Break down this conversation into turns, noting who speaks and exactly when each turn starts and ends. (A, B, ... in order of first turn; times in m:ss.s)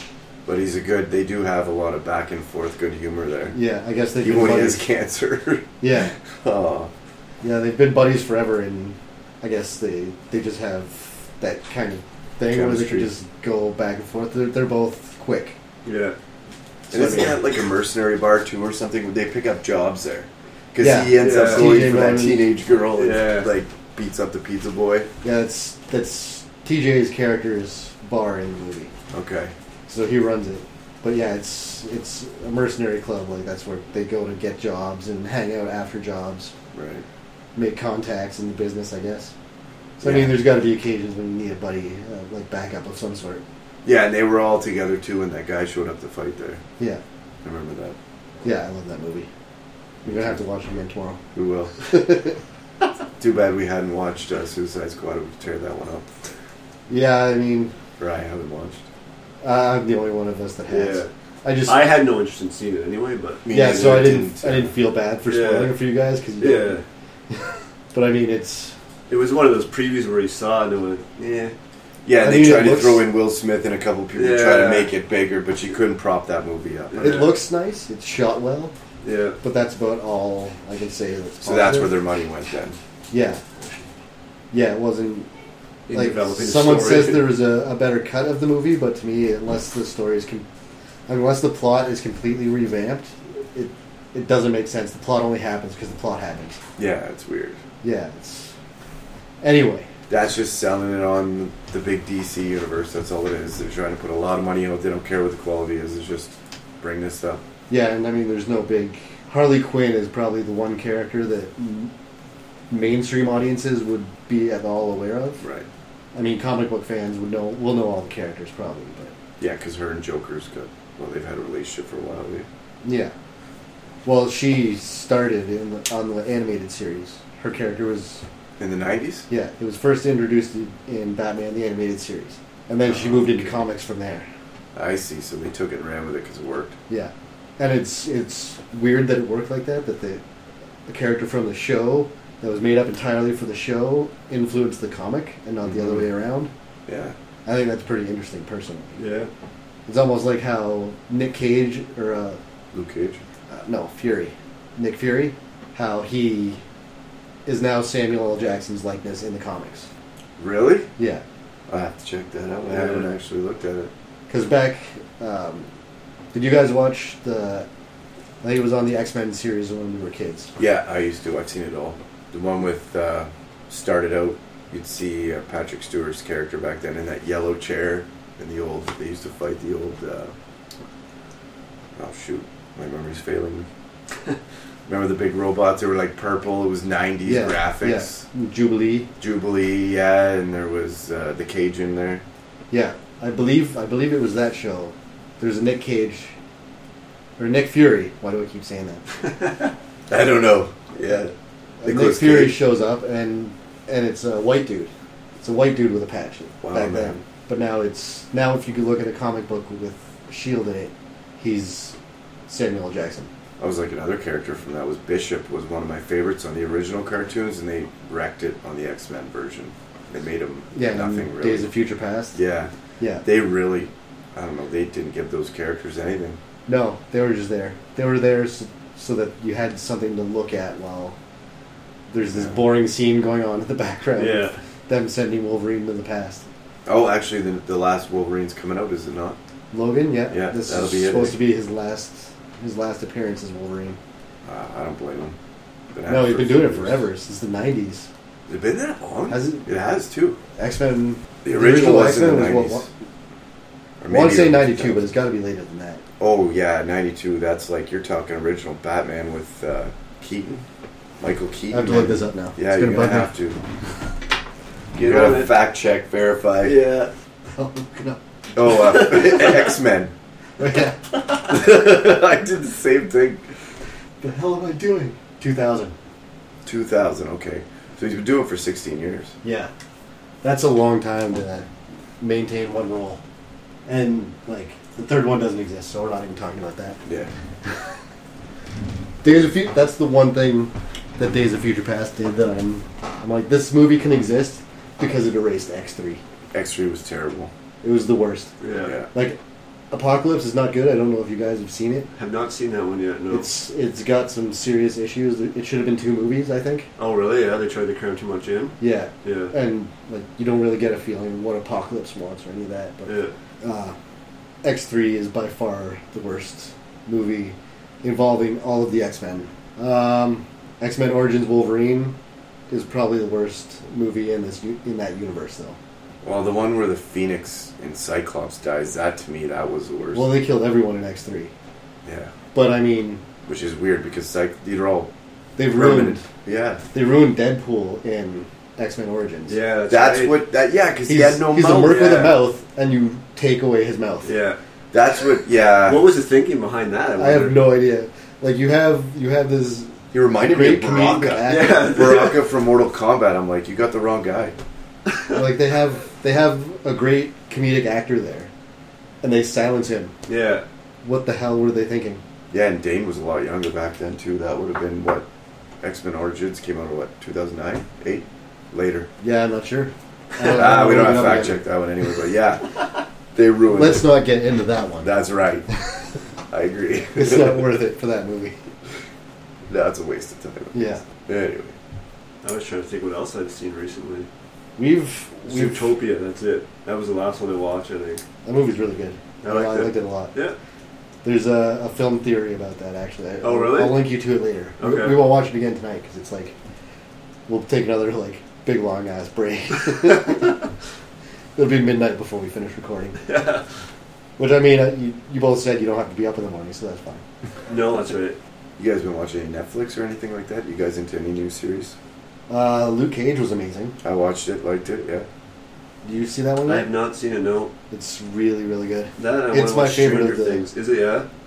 0:00.5-0:03.6 A
0:03.5-0:04.8 B
0:04.2-0:06.9 A
0:05.8-0:06.1 B
0:07.4-0:15.6 B
0:12.5-0:13.1 A
0:15.8-0:16.2 C
0:16.9-0:17.4 B
0:16.9-0:25.1 A
0:20.8-0:22.5 B
0:21.2-0:21.8 C
0:23.0-0:23.5 C
0:25.2-0:28.9 B
0:29.1-0:29.5 A
0:29.9-0:36.5 B
0:36.7-0:37.0 A
0:37.6-0:39.3 B
0:40.0-0:43.4 B
0:40.0-0:40.4 A
0:43.8-0:46.6 A
0:47.4-0:48.0 A
0:48.4-0:49.3 B
0:50.0-0:50.4 A
0:50.1-0:51.2 B
0:51.3-0:51.8 A
0:51.9-0:52.4 B
0:53.2-0:56.1 A
0:56.9-0:57.7 B
0:58.0-0:58.8 A
0:59.4-1:01.9 B
1:00.7-1:01.1 C
1:01.6-1:03.4 C
1:03.4-1:04.7 A
1:03.5-1:06.8 B
1:05.3-1:05.8 C
1:06.4-1:06.8 C
1:07.3-1:08.8 B
1:09.1-1:11.5 C
1:12.0-1:17.2 A
1:12.2-1:13.1 B
1:14.1-1:14.9 C
1:16.9-1:17.3 C
1:17.0-1:18.7 B
1:19.0-1:19.4 C
1:19.4-1:22.0 B
1:21.4-1:22.8 A
1:23.1-1:23.4 B
1:24.5-1:25.3 B
1:25.9-1:27.4 C
1:25.9-1:30.5 B
1:31.1-1:36.6 B
1:36.8-1:37.6 A
1:37.8-1:38.5 B
1:39.4-1:39.9 B
1:40.1-1:47.4 A
1:47.7-1:51.9 B
1:52.7-1:55.4 B
1:55.4-1:55.7 A
1:56.1-1:59.1 B
1:59.4-2:02.5 A
2:02.8-2:03.1 B
2:04.0-2:08.2 B
2:08.6-2:09.3 A
2:09.3-2:14.3 B
2:12.8-2:13.6 A
2:14.8-2:16.8 A
2:16.9-2:20.2 B
2:20.9-2:26.5 B
2:25.6-2:26.1 A
2:26.9-2:27.2 A
2:27.5-2:29.0 B
2:29.0-2:29.3 C
2:29.9-2:32.4 B
2:32.7-2:33.2 A
2:33.5-2:36.6 B
2:37.5-2:39.9 B
2:40.4-2:40.9 A
2:41.0-2:41.2 B
2:41.7-2:43.9 A
2:42.7-2:43.1 C
2:44.3-2:45.7 B
2:46.3-2:47.7 B
2:48.4-2:50.5 B
2:50.6-3:00.3 A
3:02.0-3:03.7 A
3:04.9-3:08.3 A
3:07.2-3:09.1 B
3:09.2-3:12.2 A
3:12.7-3:16.4 B
3:17.4-3:19.0 B
3:20.1-3:22.6 A
3:21.8-3:32.0 B
3:26.6-3:27.2 A
3:32.5-3:33.3 B
3:33.6-3:41.7 A
3:40.7-3:42.4 B
3:42.3-3:42.7 A
3:43.0-3:43.2 B
3:43.2-3:46.4 A
3:46.7-3:51.2 B
3:52.1-3:56.4 B
3:52.3-3:52.6 A
3:54.2-3:54.6 C
3:56.9-3:59.4 A
3:59.7-4:04.0 B
4:00.3-4:01.4 A
4:04.4-4:05.4 A
4:05.9-4:07.1 A
4:06.1-4:08.1 B
4:08.5-4:10.4 A
4:09.3-4:09.7 B
4:10.6-4:12.9 B
4:11.4-4:12.9 A
4:14.0-4:15.1 A
4:14.1-4:16.0 B
4:16.2-4:20.6 A
4:21.2-4:23.6 A
4:21.7-4:23.3 B
4:24.9-4:25.6 C
4:25.0-4:26.8 A
4:26.6-4:27.1 C
4:27.6-4:28.2 B
4:28.6-4:30.1 A
4:30.6-4:31.0 B
4:31.3-4:33.5 A
4:34.2-4:36.0 B
4:36.6-4:39.3 A
4:39.4-4:39.7 B
4:40.4-4:41.7 B
4:42.2-4:43.2 B
4:43.9-4:47.0 B
4:47.1-4:47.3 A
4:49.2-4:56.2 B
4:56.5-4:57.5 A
4:57.8-4:58.5 B
4:58.6-4:59.0 C
4:58.8-4:59.1 A
4:59.1-4:59.4 B
4:59.9-5:02.1 B
5:02.2-5:03.5 C
5:03.3-5:06.9 B
5:07.0-5:09.5 C
5:08.8-5:14.0 B
5:13.1-5:13.3 C
5:14.6-5:22.2 B
5:22.7-5:25.8 B
5:26.2-5:30.3 A
5:30.1-5:31.5 B
5:32.0-5:32.3 A
5:32.5-5:33.2 B
5:33.5-5:35.1 A
5:35.6-5:36.2 B
5:35.7-5:36.8 A
5:36.9-5:39.6 B
5:39.5-5:40.4 C
5:39.9-5:42.4 A
5:41.1-5:44.3 B
5:41.8-5:42.3 C
5:44.2-5:44.6 C
5:44.9-5:46.1 A
5:45.8-5:47.7 C
5:47.2-5:51.8 B
5:50.1-5:54.6 A
5:51.5-5:52.5 C
5:55.3-5:58.5 B
5:59.2-6:00.1 B
6:00.3-6:00.6 C
6:01.0-6:02.2 B
6:02.5-6:05.3 A
6:05.8-6:09.1 A
6:09.2-6:11.6 B
6:10.4-6:14.1 A
6:13.7-6:15.1 B
6:15.0-6:15.7 A
6:16.5-6:17.8 A
6:17.2-6:18.6 B
6:19.7-6:21.8 A
6:20.7-6:21.0 B
6:22.4-6:24.3 C
6:24.8-6:25.9 B
6:25.4-6:28.2 C
6:28.4-6:30.3 B
6:29.4-6:30.6 C
6:31.2-6:36.6 B
6:33.4-6:34.1 C
6:34.8-6:35.2 C
6:37.5-6:40.6 B
6:41.6-6:43.2 B
6:43.3-6:43.6 C
6:44.4-6:47.2 B
6:47.7-6:48.4 C
6:48.8-6:52.0 A
6:52.5-6:54.0 B
6:54.0-6:55.3 A
6:56.0-6:56.9 B
6:56.7-6:57.7 C
6:57.9-7:00.7 B
6:59.2-7:01.3 C